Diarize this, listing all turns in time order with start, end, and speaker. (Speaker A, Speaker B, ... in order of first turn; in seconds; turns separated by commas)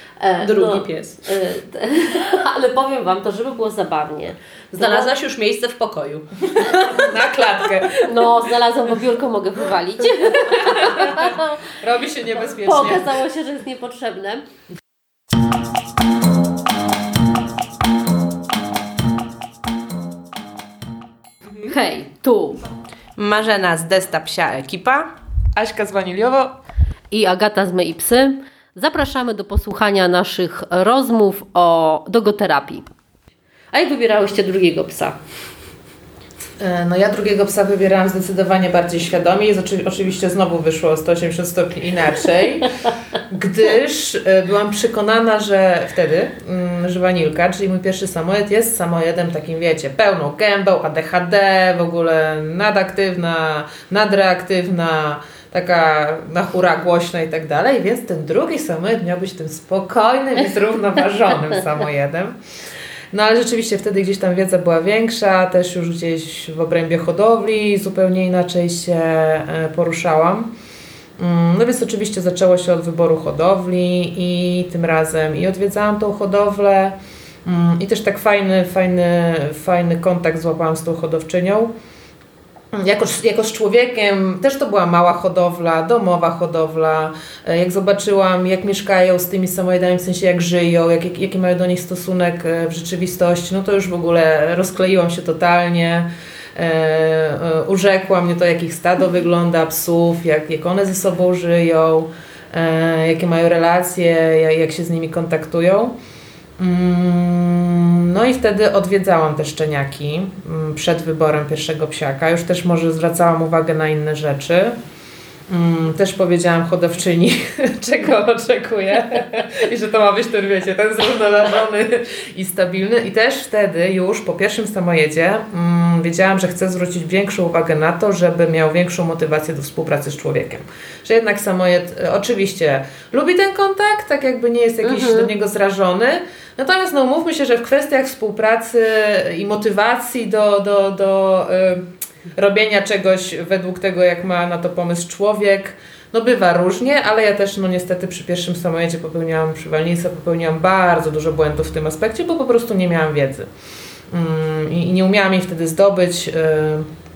Speaker A: 0.2-5.1, Speaker B: 0.4-1.2, Speaker B: 4.7-6.6, Speaker C: 6.6-8.3, Speaker A: 6.7-7.0, Speaker A: 8.1-11.6, Speaker C: 10.6-13.2, Speaker A: 12.5-14.4, Speaker A: 21.6-22.6, Speaker B: 23.2-25.1, Speaker C: 25.6-26.6, Speaker A: 27.1-32.8, Speaker A: 33.7-35.2, Speaker C: 36.6-42.7, Speaker C: 43.3-62.4, Speaker C: 63.1-70.5, Speaker C: 71.2-81.7, Speaker C: 82.7-105.9, Speaker C: 106.6-114.8, Speaker C: 115.5-141.8, Speaker A: 134.8-135.3, Speaker C: 142.4-153.5, Speaker C: 154.1-156.9